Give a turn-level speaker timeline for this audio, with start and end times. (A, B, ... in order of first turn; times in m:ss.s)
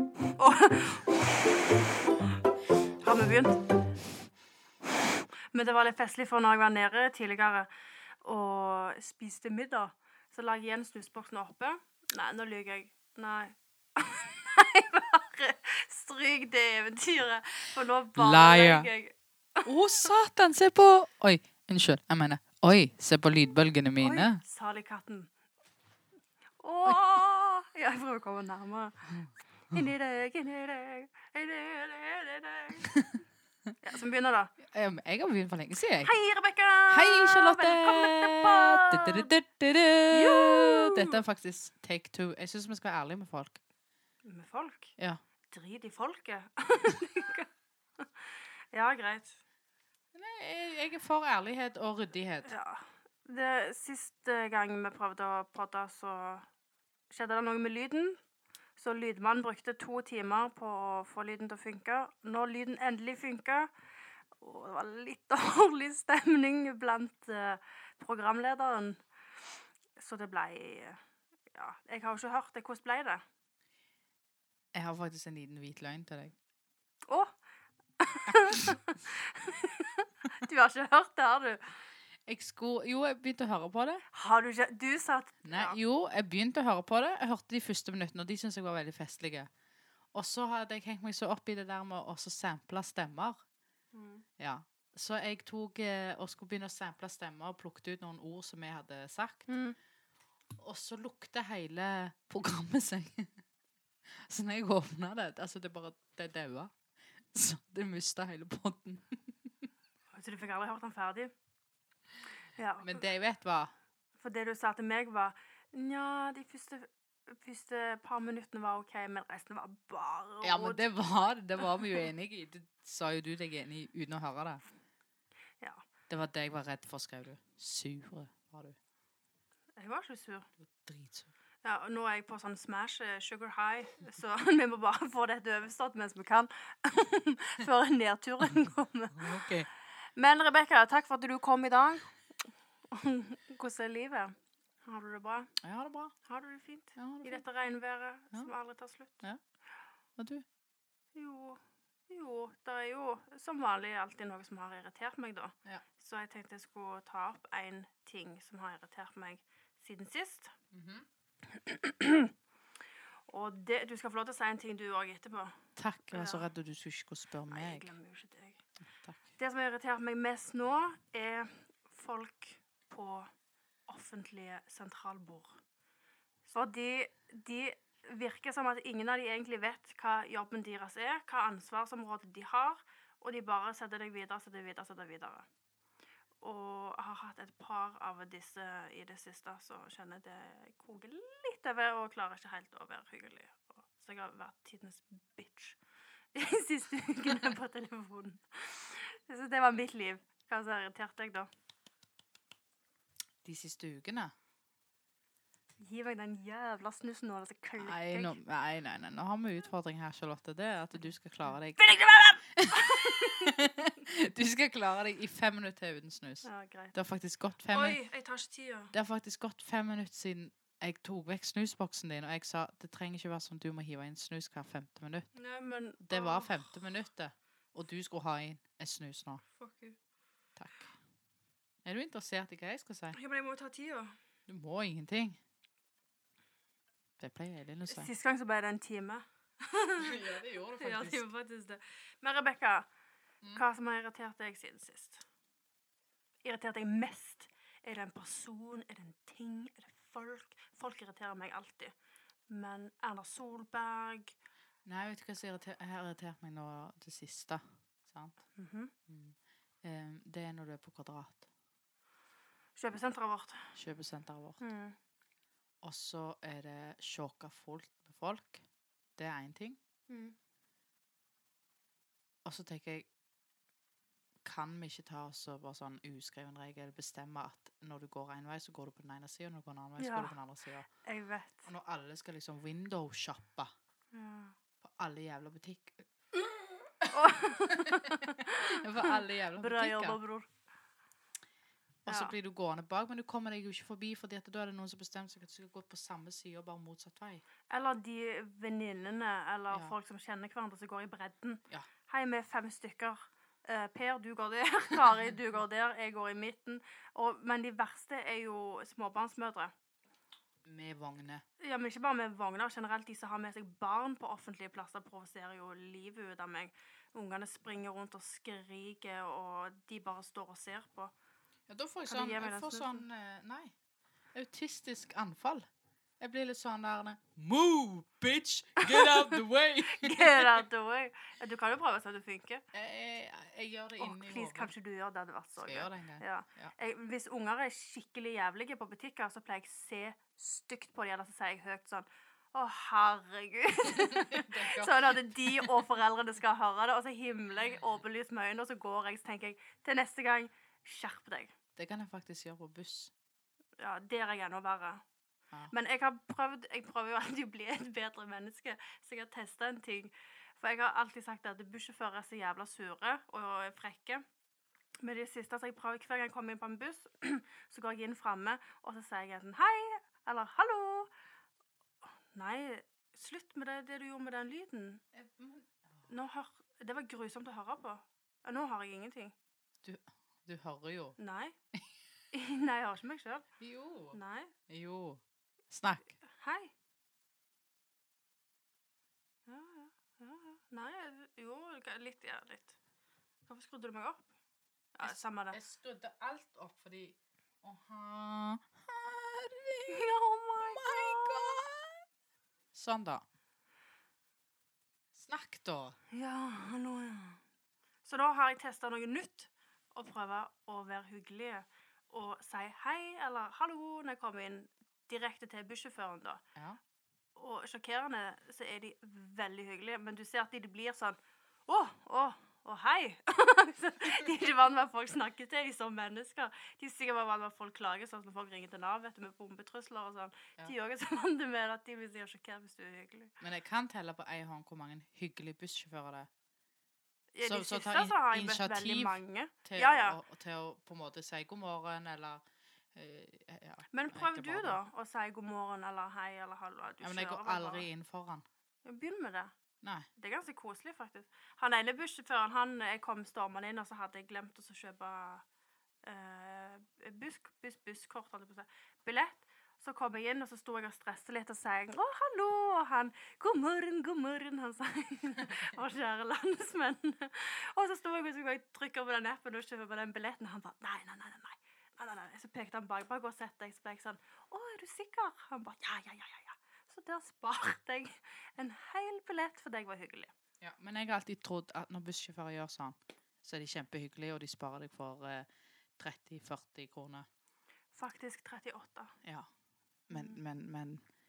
0:00.3-0:01.4 A
0:03.0-0:03.7 A
0:05.0-0:07.7 A
0:08.2-0:20.0 A
0:18.2-0:18.9 B
0:19.7-0:24.4 B
0:24.0-0:25.3 A
0:26.6-0:29.0 A
0:29.1-0:29.9 B
0:29.7-0:32.9 A
0:32.8-0:33.1 B
0:33.8-0:34.5 A
0:34.6-0:36.1 B
0:36.0-0:39.3 A
0:36.9-0:43.6 B
0:40.1-0:41.2 A
0:44.2-0:44.9 A
0:45.5-0:49.4 A
0:50.1-0:52.5 B
0:52.4-0:56.5 A
0:57.1-0:58.2 A
0:58.8-1:03.7 A
1:04.4-1:09.0 A
1:10.0-1:11.0 A
1:11.5-1:13.2 A
1:14.7-1:16.4 B
1:17.1-1:17.4 A
1:18.0-1:21.7 A
1:22.3-1:24.0 B
1:24.1-1:25.8 A
1:25.4-1:29.5 B
1:30.1-1:33.4 B
1:33.9-1:34.2 A
1:34.4-1:39.5 B
1:39.5-1:39.8 A
1:40.6-1:43.4 B
1:44.1-1:46.7 B
1:47.3-1:49.2 B
1:50.1-1:51.3 A
1:52.6-1:53.0 A
1:52.8-1:53.7 B
1:54.2-2:00.9 A
2:00.4-2:04.6 B
2:06.1-2:08.8 B
2:09.8-2:10.5 A
2:10.6-2:11.3 B
2:11.6-2:19.4 A
2:19.2-2:19.7 B
2:20.2-2:22.2 A
2:22.9-2:25.5 A
2:25.6-2:26.1 B
2:26.3-2:29.2 A
2:27.0-2:27.4 B
2:30.2-2:30.4 B
2:31.2-2:40.5 A
2:40.7-2:41.1 B
2:41.5-2:42.3 A
2:43.3-2:45.6 A
2:45.8-2:47.9 B
2:46.1-2:46.5 A
2:47.5-2:48.6 A
2:49.4-2:53.3 A
2:53.9-2:55.6 A
2:56.5-3:05.4 A
3:06.4-3:15.8 A
3:16.3-3:21.5 A
3:23.4-3:24.3 B
3:25.8-3:28.4 A
3:27.8-3:38.0 B
3:31.8-3:33.6 A
3:36.4-3:36.9 A
3:37.7-3:38.9 A
3:38.9-3:45.3 B
3:45.4-3:46.6 A
3:46.0-3:49.4 B
3:49.6-3:50.0 A
3:50.6-3:51.0 B
3:51.8-3:53.2 B
3:53.1-3:54.2 A
3:54.5-3:55.4 B
3:57.2-3:58.1 B
3:57.9-4:00.2 A
4:00.0-4:01.3 B
4:00.8-4:02.9 A
4:03.5-4:05.2 A
4:06.4-4:11.9 A
4:12.5-4:14.4 A
4:14.8-4:18.4 B
4:18.6-4:18.9 A
4:19.1-4:21.5 B
4:22.8-4:23.7 A
4:23.8-4:24.6 B
4:24.6-4:25.0 A
4:25.8-4:28.6 B
4:29.2-4:29.8 B
4:30.1-4:30.4 A
4:32.4-4:33.1 B
4:34.4-4:40.9 B
4:40.0-4:40.3 A
4:41.0-4:41.7 A
4:41.6-4:43.7 B
4:44.1-4:44.6 A
4:44.8-4:46.1 B
4:47.0-4:50.2 B
4:47.1-4:50.5 A
4:52.0-4:57.4 B
4:52.1-4:52.3 A
4:57.7-5:09.7 A
5:10.6-5:11.4 B
5:11.6-5:21.1 A
5:21.7-5:23.7 B
5:22.1-5:23.0 A
5:24.3-5:25.7 B
5:26.2-5:30.6 B
5:28.8-5:29.2 A
5:29.8-5:32.6 A
5:32.7-5:34.7 B
5:34.0-5:51.5 A
5:35.6-5:36.8 B
5:44.0-5:45.8 B
5:51.8-5:53.1 B
5:53.8-5:55.0 A
5:55.7-6:04.2 A
6:05.0-6:11.1 A
6:12.3-6:15.0 A
6:15.1-6:15.8 B
6:16.1-6:19.4 A
6:19.8-6:21.2 B
6:21.2-6:21.6 A
6:22.3-6:23.5 A
6:23.6-6:26.2 B
6:24.1-6:24.5 A
6:26.2-6:26.7 A
6:29.5-6:32.8 A
6:33.5-6:34.3 A
6:35.0-6:35.6 A
6:35.0-6:41.9 B
6:39.9-6:41.6 A
6:42.7-6:43.2 B
6:45.1-6:46.0 B
6:46.1-6:47.4 A
6:48.0-6:56.4 A
6:57.4-7:13.3 A
7:13.4-7:16.3 B
7:17.3-7:20.2 A
7:17.4-7:22.4 B
7:22.9-7:24.8 B
7:23.9-7:27.9 A
7:27.0-7:28.4 B
7:28.8-7:29.5 A
7:29.8-7:30.1 B
7:30.2-7:35.4 A
7:36.0-8:00.3 A
8:00.6-8:05.5 B
8:06.0-8:07.3 B
8:07.9-8:09.1 A
8:10.1-8:11.0 B
8:10.1-8:10.4 A